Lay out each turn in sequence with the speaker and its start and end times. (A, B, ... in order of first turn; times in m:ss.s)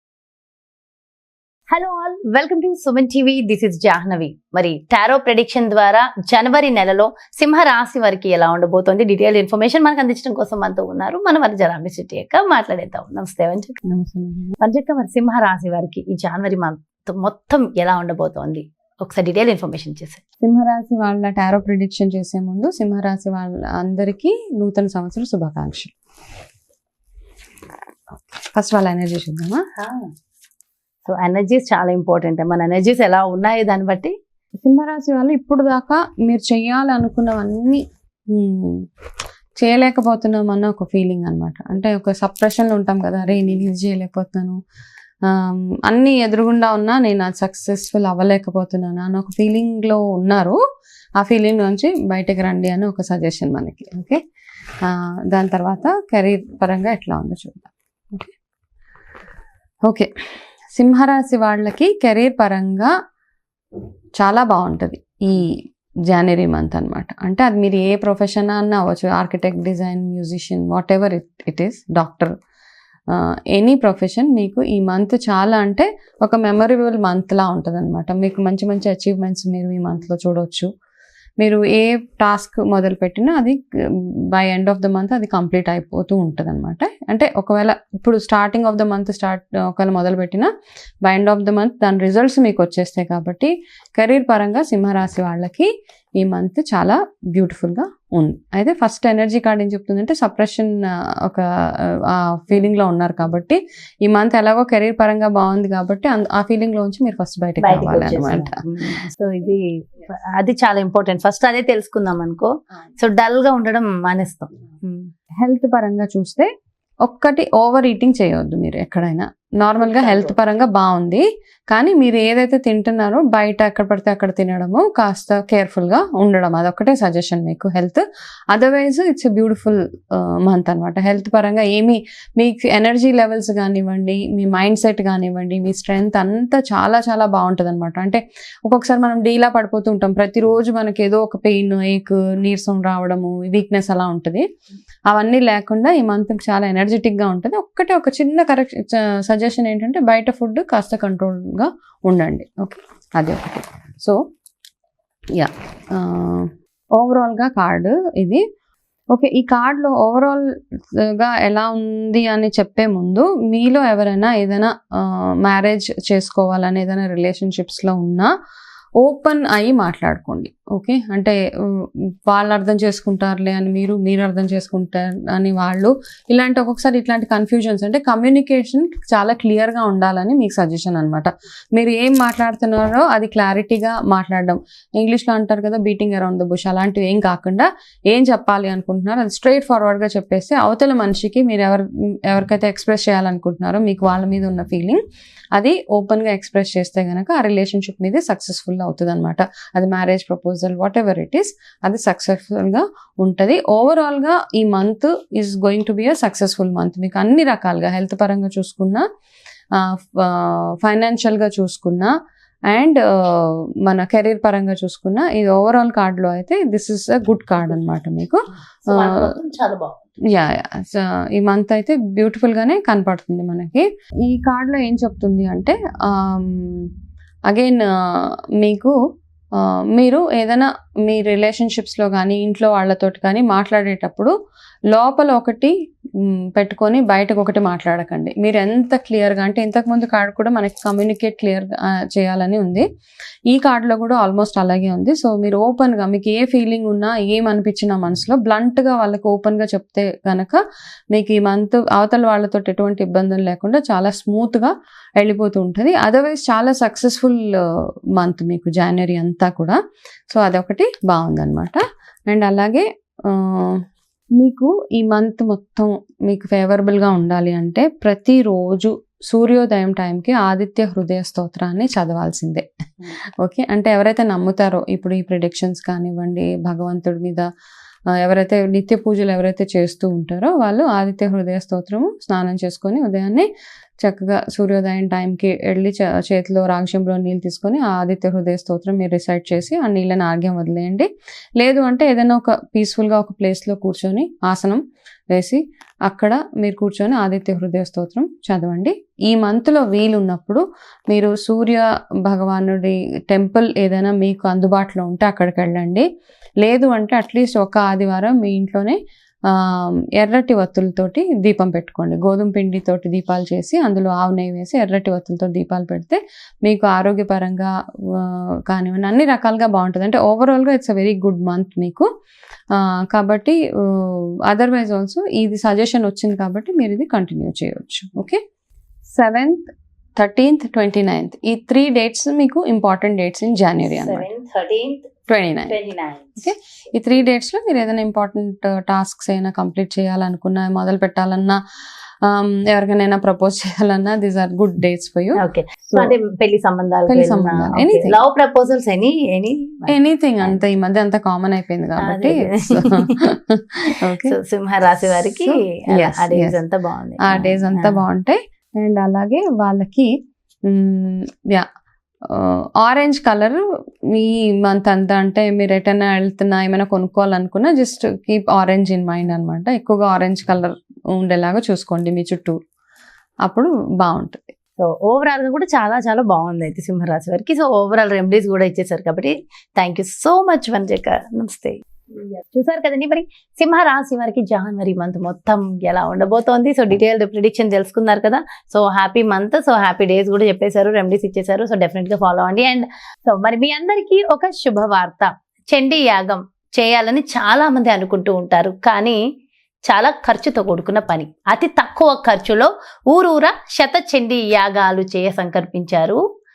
0:01.7-0:13.8 A
0:13.9-0:14.6 B
0:14.6-0:20.2 A
0:20.4-0:25.9 B
0:28.4-0:29.6 B
0:29.8-0:30.1 A
0:31.0-0:34.1 A
0:34.6-0:37.8 B
0:38.3-0:38.8 B
0:39.6-0:44.6 B
0:45.3-0:50.6 B
0:51.2-0:54.2 B
0:54.8-0:58.3 B
1:00.8-1:02.9 B
1:04.2-1:05.6 B
1:06.1-1:12.3 B
1:13.1-1:20.7 B
1:21.4-1:23.6 B
1:24.3-1:30.5 B
1:31.0-1:35.7 B
1:36.2-1:48.6 B
1:47.6-1:55.1 A
1:55.4-1:56.5 B
1:57.0-2:24.4 B
1:59.8-2:00.4 A
2:25.1-2:34.2 B
2:35.4-2:38.4 B
2:39.1-2:48.3 B
2:49.0-2:51.4 B
2:52.3-3:15.0 B
3:15.6-3:29.0 B
3:29.8-3:32.1 B
3:32.7-3:38.4 B
3:38.8-3:40.0 A
3:40.3-3:46.9 B
3:47.5-3:48.9 B
3:49.6-3:54.3 B
3:54.9-3:55.7 B
3:56.6-4:02.8 B
4:03.5-4:10.6 B
4:11.1-4:17.4 B
4:18.2-4:19.8 B
4:20.3-4:23.8 B
4:24.4-4:37.4 B
4:38.2-4:43.5 B
4:44.0-4:51.1 B
4:51.6-4:54.8 B
4:55.3-5:06.0 B
5:06.6-5:09.0 B
5:09.5-5:22.1 B
5:22.7-5:28.4 B
5:29.1-5:34.3 B
5:33.8-5:35.1 A
5:35.3-5:35.8 B
5:35.7-5:36.5 A
5:36.4-5:41.6 B
5:42.2-5:45.4 B
5:45.4-5:50.6 A
5:47.1-5:48.2 B
5:49.9-5:54.4 B
5:52.0-5:53.3 A
5:54.1-5:58.0 A
5:55.1-5:56.6 B
5:57.3-6:00.1 B
6:00.7-6:01.7 B
6:02.3-6:03.6 B
6:04.1-6:12.6 B
6:13.4-6:14.5 B
6:14.8-6:39.2 A
6:39.9-6:46.2 A